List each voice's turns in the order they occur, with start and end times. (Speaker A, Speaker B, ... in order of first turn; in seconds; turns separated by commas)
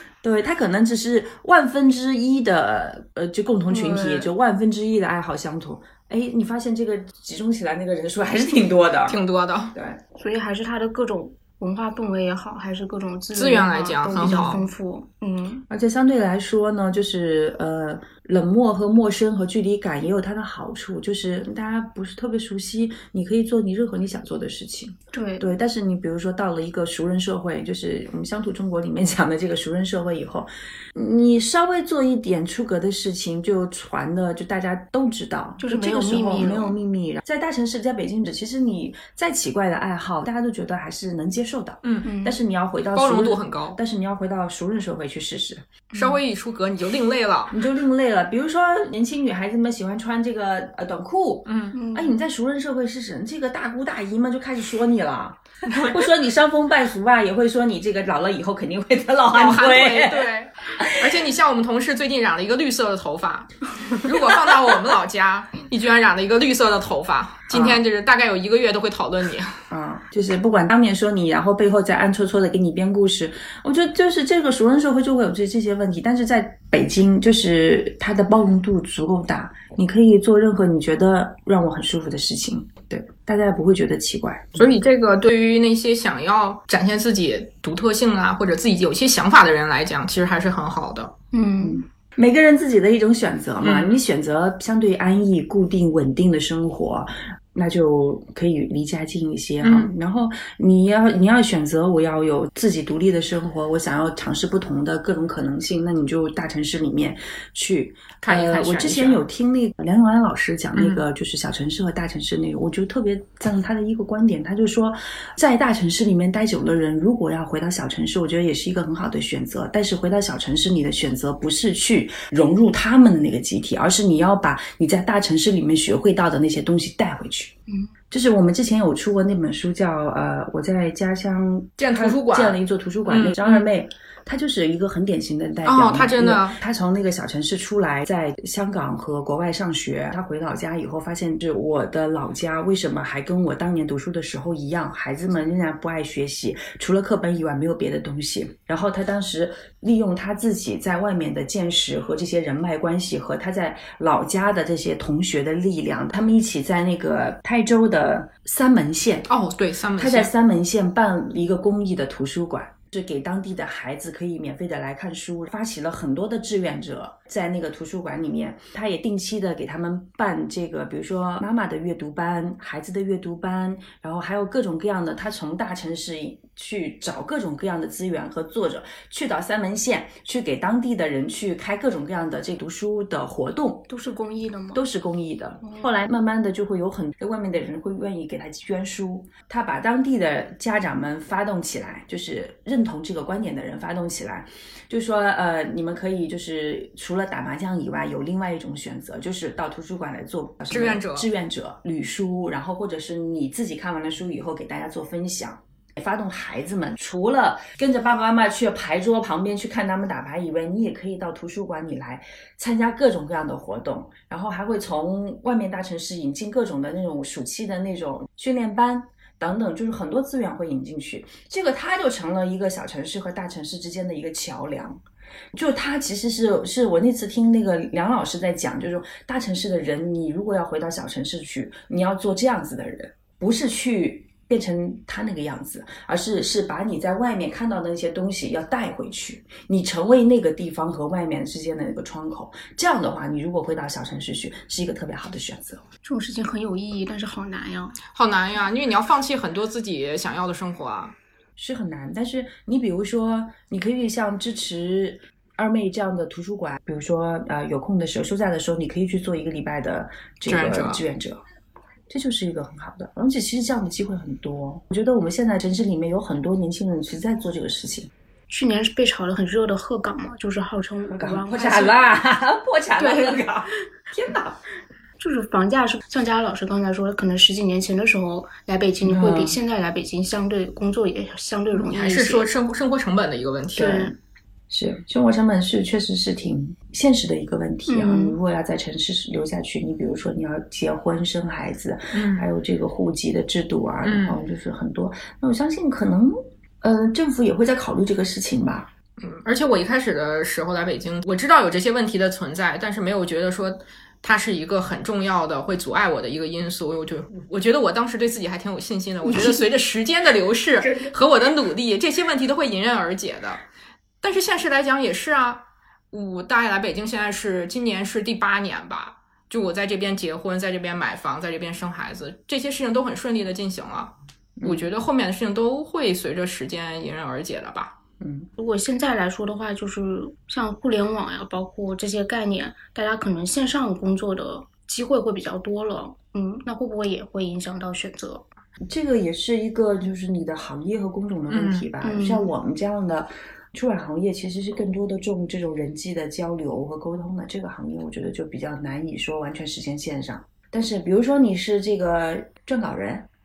Speaker A: 0.2-9.2, Speaker B: 3.7-4.3, Speaker C: 9.1-9.7, Speaker A: 9.7-10.0, Speaker B: 10.1-15.6, Speaker C: 13.3-14.7, Speaker A: 14.2-14.6, Speaker A: 15.7-45.7, Speaker B: 25.1-25.5, Speaker B: 35.6-36.8, Speaker C: 41.8-42.1, Speaker B: 42.0-42.4, Speaker C: 42.9-43.8, Speaker B: 45.9-46.2, Speaker C: 45.9-47.6, Speaker A: 47.5-61.3, Speaker C: 51.5-51.8, Speaker B: 51.7-52.2, Speaker C: 55.6-55.9, Speaker C: 59.3-69.7, Speaker A: 67.5-67.8, Speaker A: 69.7-84.7, Speaker C: 84.6-91.1, Speaker B: 91.3-91.8, Speaker A: 91.6-127.5, Speaker C: 93.6-94.0, Speaker C: 99.6-99.9, Speaker C: 108.2-109.2, Speaker C: 110.7-111.0, Speaker A: 128.1-159.3, Speaker C: 131.8-133.7, Speaker C: 135.6-136.6, Speaker C: 159.3-160.3, Speaker A: 160.0-183.9, Speaker B: 183.9-184.8, Speaker A: 184.7-225.0, Speaker B: 185.6-185.9, Speaker C: 200.7-201.3, Speaker A: 225.5-245.8, Speaker B: 246.0-248.0, Speaker C: 248.1-251.1, Speaker A: 251.6-261.4, Speaker C: 260.5-261.0, Speaker A: 262.1-268.1, Speaker B: 268.5-272.0, Speaker A: 271.1-274.6, Speaker B: 273.0-273.5, Speaker B: 275.2-282.5, Speaker A: 279.0-279.6, Speaker C: 281.8-284.1, Speaker B: 283.8-284.1, Speaker A: 284.7-298.9, Speaker B: 287.9-288.4, Speaker C: 292.1-292.4, Speaker C: 294.0-294.4, Speaker C: 299.2-313.6, Speaker B: 309.3-309.6, Speaker C: 314.2-328.0, Speaker A: 324.6-324.9, Speaker A: 328.2-328.5, Speaker B: 328.6-338.5, Speaker A: 338.8-353.3, Speaker C: 341.5-341.9, Speaker B: 342.0-342.5